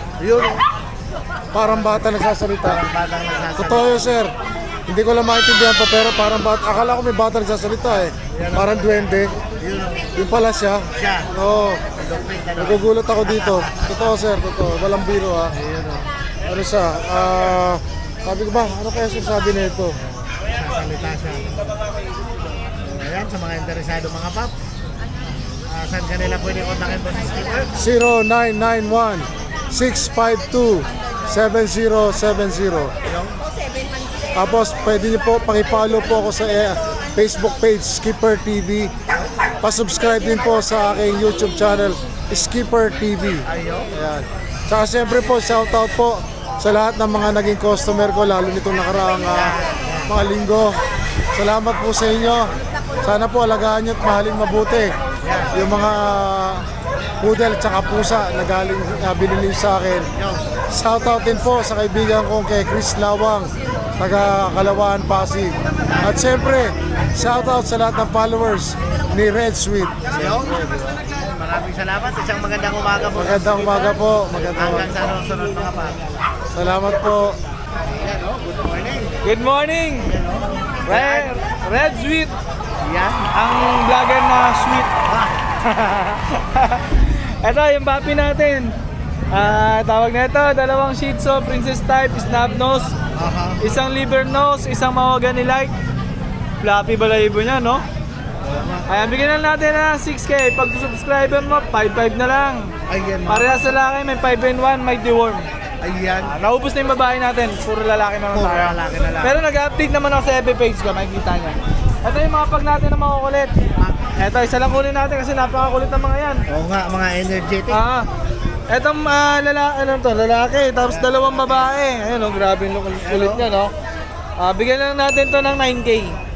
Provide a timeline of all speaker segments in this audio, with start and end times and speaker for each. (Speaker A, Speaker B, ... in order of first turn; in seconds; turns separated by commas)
Speaker A: 0.2-0.6, Speaker B: 1.5-2.8, Speaker A: 1.6-2.1, Speaker A: 2.6-4.2, Speaker B: 3.6-4.3, Speaker B: 4.9-9.3, Speaker A: 8.2-10.0, Speaker B: 10.2-11.8, Speaker A: 10.9-11.3, Speaker A: 11.9-14.2, Speaker B: 12.6-15.5, Speaker A: 15.5-16.1, Speaker B: 16.5-19.9, Speaker A: 20.0-21.8, Speaker A: 22.8-24.5, Speaker A: 25.6-27.8, Speaker B: 27.8-32.9, Speaker A: 33.0-33.4, Speaker B: 34.3-38.9, Speaker B: 39.6-50.8, Speaker A: 43.5-43.9, Speaker A: 49.2-50.1, Speaker B: 51.4-52.4, Speaker B: 53.0-54.9, Speaker A: 55.2-55.7, Speaker B: 55.5-56.6, Speaker B: 57.2-60.1, Speaker A: 60.1-60.5, Speaker B: 60.7-70.9, Speaker A: 65.6-67.7, Speaker A: 70.1-73.9, Speaker B: 73.1-75.0, Speaker A: 74.5-76.2, Speaker B: 76.5-77.4, Speaker A: 77.8-79.1, Speaker C: 79.2-80.1, Speaker A: 80.0-81.3, Speaker C: 80.8-82.3, Speaker A: 82.8-83.3, Speaker C: 83.3-84.9, Speaker A: 85.0-85.4, Speaker C: 85.6-88.7, Speaker C: 89.3-93.0, Speaker A: 93.1-93.6, Speaker C: 93.6-95.7, Speaker C: 96.6-97.8, Speaker A: 98.4-98.9, Speaker C: 98.9-102.7, Speaker A: 102.9-103.7, Speaker C: 103.3-105.5, Speaker A: 105.8-106.4, Speaker C: 106.2-113.5, Speaker A: 108.3-109.4, Speaker A: 113.8-114.5, Speaker C: 114.2-116.4, Speaker A: 116.5-117.8, Speaker C: 117.7-118.0, Speaker C: 118.7-123.7, Speaker A: 120.8-121.8, Speaker A: 123.0-123.5, Speaker C: 124.4-126.2